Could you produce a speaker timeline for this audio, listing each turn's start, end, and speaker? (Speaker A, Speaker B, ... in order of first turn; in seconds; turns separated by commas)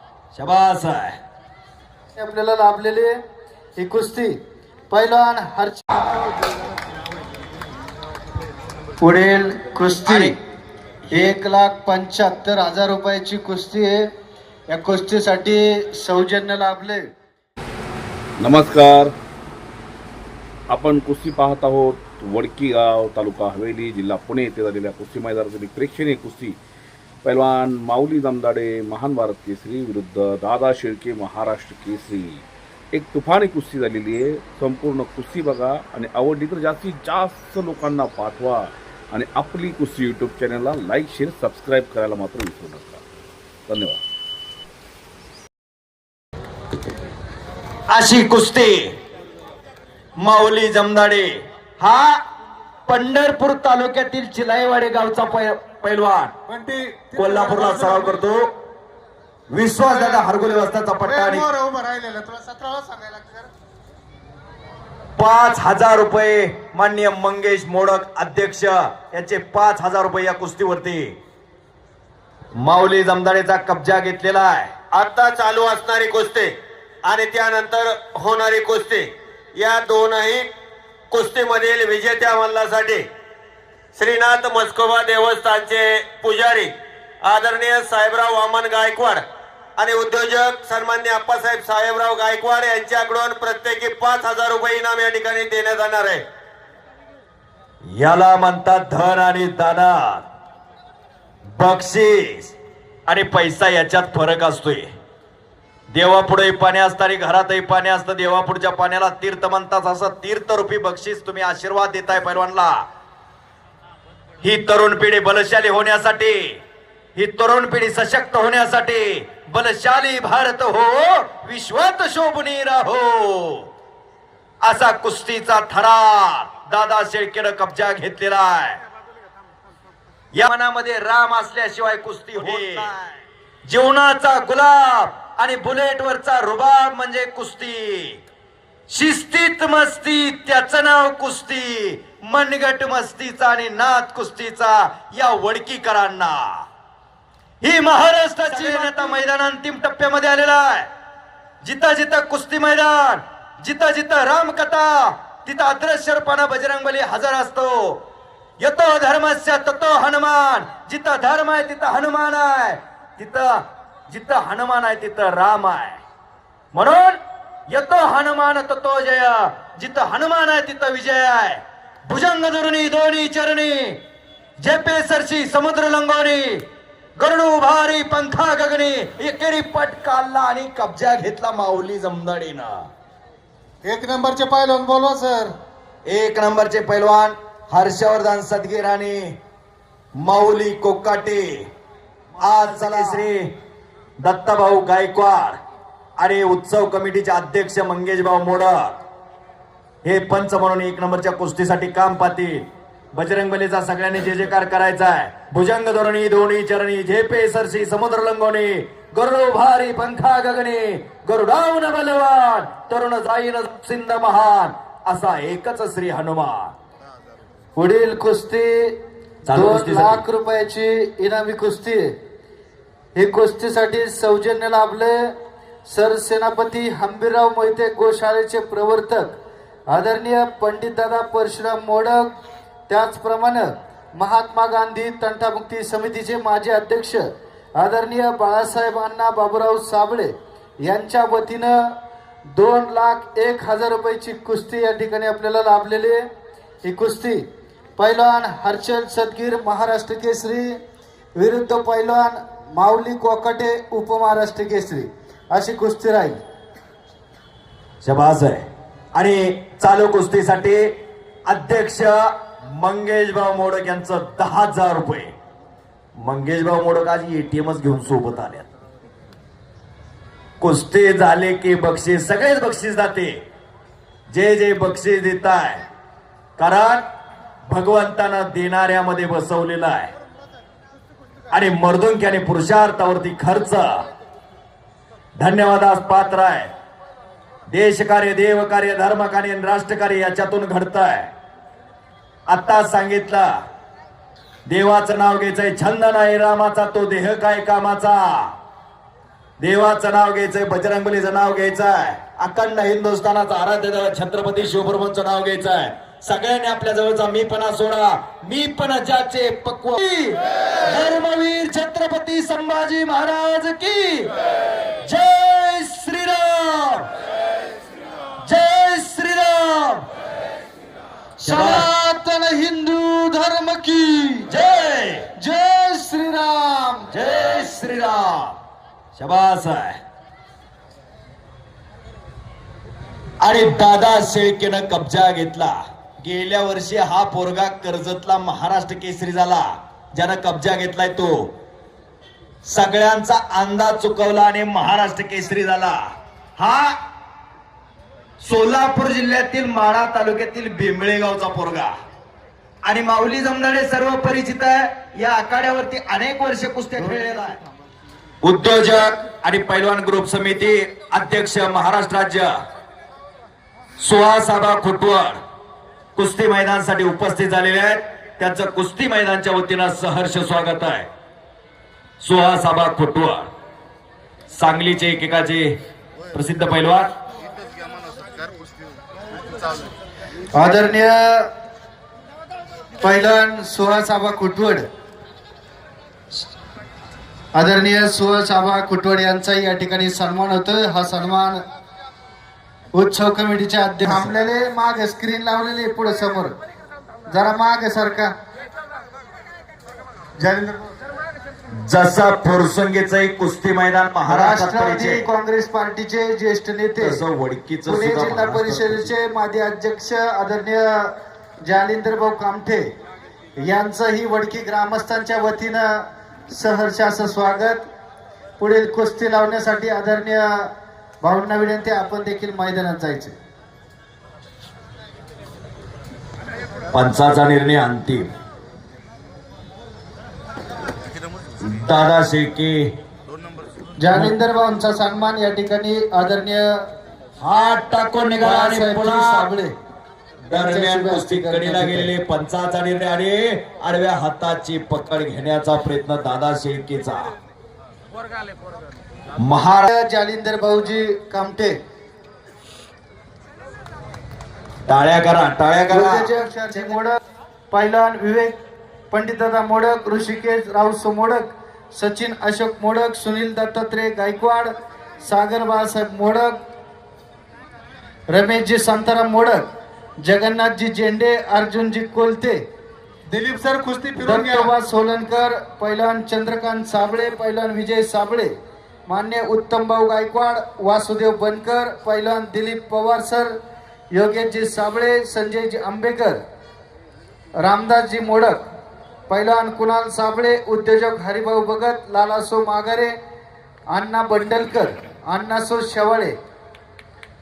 Speaker A: 0.3-1.2, Speaker B: 2.2-3.1, Speaker B: 3.8-4.3, Speaker B: 4.9-6.3, Speaker B: 9.0-10.4, Speaker A: 10.1-10.3, Speaker B: 11.1-14.1, Speaker B: 14.7-17.1, Speaker C: 18.4-19.1, Speaker C: 20.7-26.6, Speaker C: 27.2-43.0, Speaker C: 43.7-44.0, Speaker A: 47.9-48.9, Speaker A: 50.2-52.2, Speaker A: 52.9-56.3, Speaker D: 56.5-58.2, Speaker A: 57.2-58.5, Speaker A: 59.5-61.5, Speaker D: 59.9-63.5, Speaker A: 65.2-71.2, Speaker A: 72.6-74.8, Speaker E: 74.9-76.5, Speaker E: 77.0-80.5, Speaker E: 81.1-83.1, Speaker E: 84.0-89.2, Speaker E: 89.8-96.2, Speaker A: 97.9-100.2, Speaker A: 101.6-102.5, Speaker A: 103.1-104.9, Speaker A: 105.9-112.8, Speaker A: 114.4-116.4, Speaker A: 117.2-123.7, Speaker A: 124.6-128.8, Speaker A: 130.3-132.9, Speaker E: 132.5-133.2, Speaker A: 133.7-138.2, Speaker A: 138.9-146.7, Speaker A: 147.6-150.9, Speaker B: 148.5-149.0, Speaker A: 151.6-158.0, Speaker A: 158.6-166.0, Speaker A: 166.7-167.2, Speaker A: 167.7-174.0, Speaker A: 174.6-176.6, Speaker A: 177.2-182.8, Speaker D: 183.8-185.6, Speaker A: 186.1-189.3, Speaker A: 190.2-191.7, Speaker A: 192.4-193.5, Speaker A: 194.2-195.6, Speaker A: 196.2-199.0, Speaker A: 200.0-216.7, Speaker B: 217.8-218.9, Speaker A: 219.5-220.2, Speaker B: 219.5-222.1, Speaker B: 223.2-225.2, Speaker B: 225.9-229.4, Speaker B: 229.9-232.3, Speaker B: 232.9-237.2, Speaker B: 237.8-240.3, Speaker B: 240.8-241.9, Speaker B: 242.6-246.2, Speaker B: 246.8-247.4, Speaker B: 248.0-250.8, Speaker B: 251.4-256.4, Speaker A: 258.0-265.3, Speaker A: 266.2-268.7, Speaker A: 270.6-273.4, Speaker A: 274.3-275.8, Speaker A: 276.6-277.0, Speaker A: 277.7-280.1, Speaker A: 281.5-284.1, Speaker A: 285.4-286.7, Speaker A: 287.7-291.3, Speaker A: 292.5-293.5, Speaker A: 294.7-298.5, Speaker A: 299.6-314.3, Speaker A: 315.0-317.1, Speaker A: 318.4-320.0, Speaker B: 321.4-324.5, Speaker A: 321.4-321.9, Speaker A: 324.5-325.3, Speaker B: 325.4-327.1, Speaker A: 327.1-328.6, Speaker A: 329.2-330.0, Speaker A: 333.4-341.5, Speaker A: 342.6-346.0, Speaker A: 346.6-347.0, Speaker A: 348.4-351.9, Speaker A: 352.9-357.6, Speaker A: 358.4-362.5, Speaker A: 364.0-365.4, Speaker A: 366.2-371.1, Speaker A: 372.2-373.5, Speaker A: 374.5-375.7, Speaker A: 376.3-377.1, Speaker B: 380.6-381.5, Speaker B: 383.0-384.8, Speaker B: 387.6-391.6, Speaker B: 392.9-396.5, Speaker B: 397.3-398.3, Speaker D: 400.4-400.9, Speaker A: 401.9-405.2, Speaker B: 404.3-407.2, Speaker A: 407.0-409.1, Speaker B: 407.9-411.1, Speaker B: 411.7-412.9, Speaker B: 413.6-417.9, Speaker B: 418.6-420.7, Speaker B: 421.2-423.3, Speaker A: 426.9-428.3, Speaker A: 431.7-432.9, Speaker B: 434.0-436.8, Speaker A: 437.4-439.5, Speaker B: 438.4-439.7, Speaker A: 440.5-447.3, Speaker B: 440.5-442.1, Speaker A: 449.4-449.9, Speaker B: 449.9-451.8, Speaker A: 454.9-456.3, Speaker B: 455.9-457.2, Speaker B: 457.7-458.6, Speaker B: 459.1-464.7, Speaker B: 465.2-466.6, Speaker B: 468.3-469.7, Speaker B: 470.2-472.6, Speaker D: 473.3-474.7, Speaker B: 474.2-478.5, Speaker B: 479.1-483.5, Speaker B: 484.1-486.4, Speaker B: 487.6-488.6, Speaker B: 489.3-493.1, Speaker B: 493.9-496.3